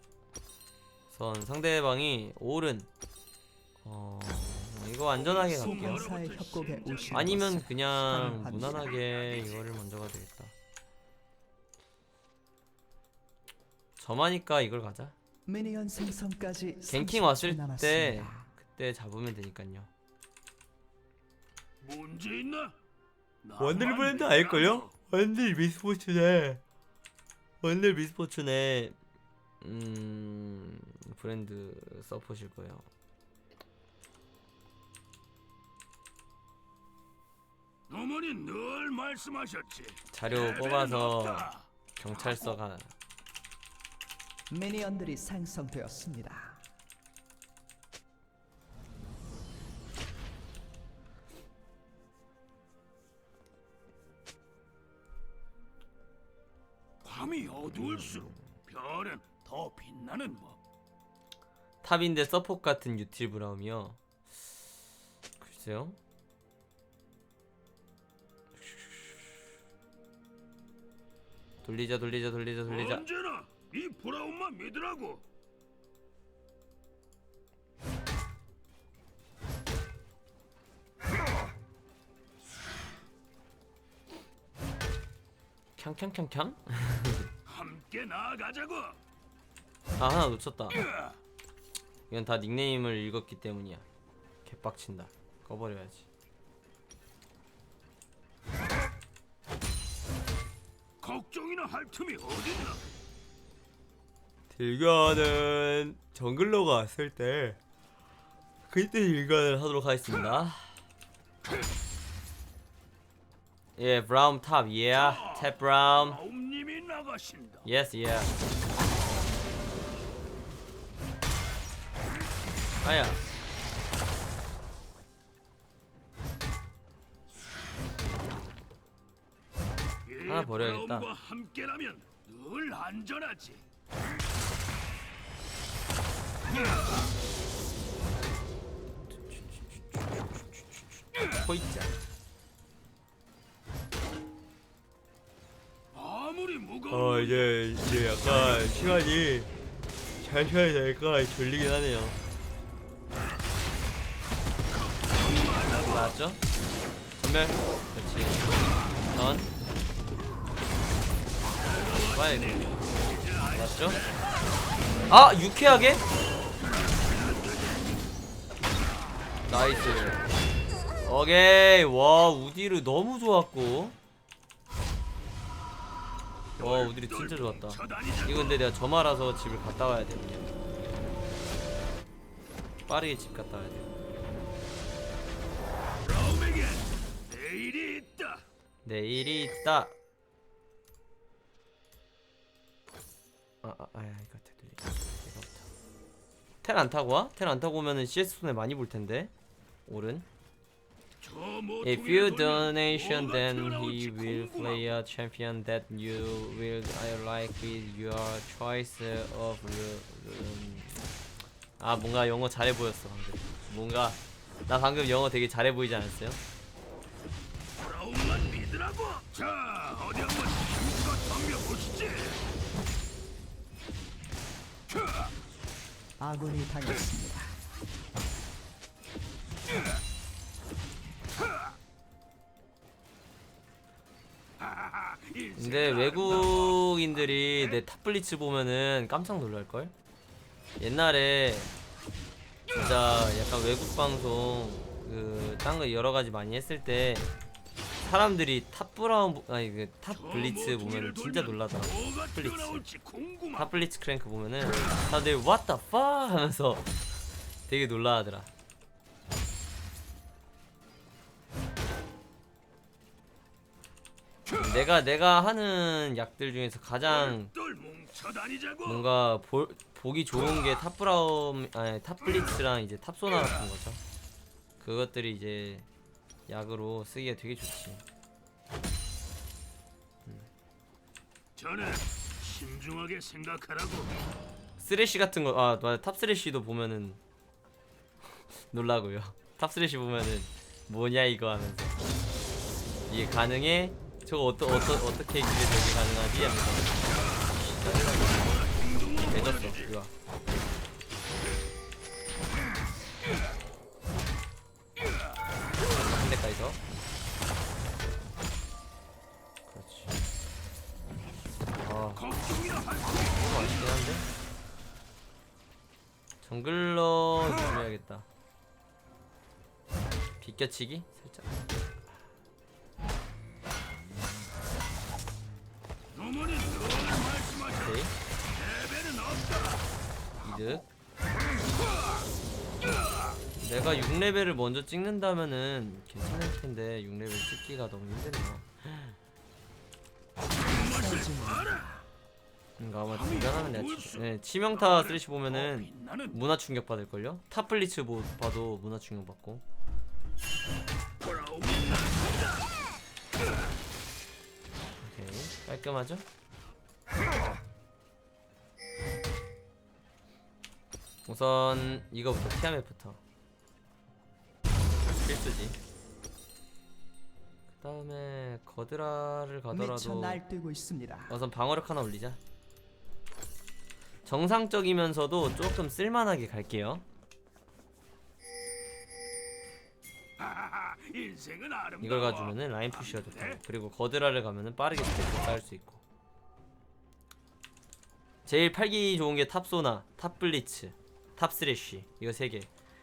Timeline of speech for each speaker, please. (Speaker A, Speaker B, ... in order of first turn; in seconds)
Speaker A: 1.1-2.9, 3.8-6.1, 7.1-10.5, 14.0-15.1, 16.9-19.9, 23.6-26.6, 27.6-29.0, 29.6-32.9, 40.1-42.9, 58.1-58.4, 61.8-64.0, 65.4-66.0, 68.6-68.9, 71.6-73.0, 85.8-87.3, 90.0-90.8, 92.1-93.8, 94.5-96.0, 104.5-107.6, 108.7-110.8, 113.8-116.2, 117.7-118.4, 122.8-123.2, 130.3-131.1, 139.1-141.9, 146.9-149.5, 150.2-152.2, 155.7-156.4, 157.2-158.4, 159.1-159.5, 162.0-162.8, 163.5-164.0, 165.1-166.1, 169.5-170.2, 171.0-174.0, 176.6-180.6, 182.9-183.9, 188.8-189.9, 193.6-195.7, 196.6-199.3, 199.9-200.3, 201.8-211.0, 211.8-216.4, 235.6-239.9, 240.8-241.7, 242.7-247.3, 248.0-252.8, 253.6-256.9, 257.7-258.5, 264.6-267.5, 268.9-274.0, 274.8-275.9, 276.5-278.0, 284.8-287.2, 288.7-292.0, 293.1-298.6, 299.3-300.1, 305.9-307.0, 309.7-310.2, 311.8-312.3, 313.4-314.3, 316.4-318.3, 320.4-321.5, 327.8-328.1, 330.4-330.9, 333.6-338.7, 342.8-349.6, 355.0-356.2, 361.3-363.2, 365.1-365.8, 367.8-370.4, 371.3-372.4, 374.3-377.0, 382.0-386.0, 388.5-392.7
Speaker B: 5.1-7.4, 8.6-9.7, 21.8-22.7, 23.4-24.9, 37.9-42.5, 57.0-60.6, 72.7-75.2, 87.5-89.0, 90.9-91.2, 101.0-102.8, 114.9-117.7, 130.1-133.6, 136.5-137.1, 145.9-149.0, 154.7-156.2, 161.6-164.5, 166.6-167.9, 176.6-178.6, 186.0-188.4, 201.2-205.0, 217.8-222.4, 234.6-237.8, 250.1-253.8, 267.0-269.1, 281.6-284.1, 297.1-299.9, 312.2-314.0, 326.1-329.9, 333.0-333.4, 340.5-341.9, 343.1-346.4, 351.2-352.7, 380.4-383.6
Speaker C: 5.6-9.0, 15.5-18.5, 44.5-46.6, 226.2-227.6, 340.7-342.0, 369.7-371.4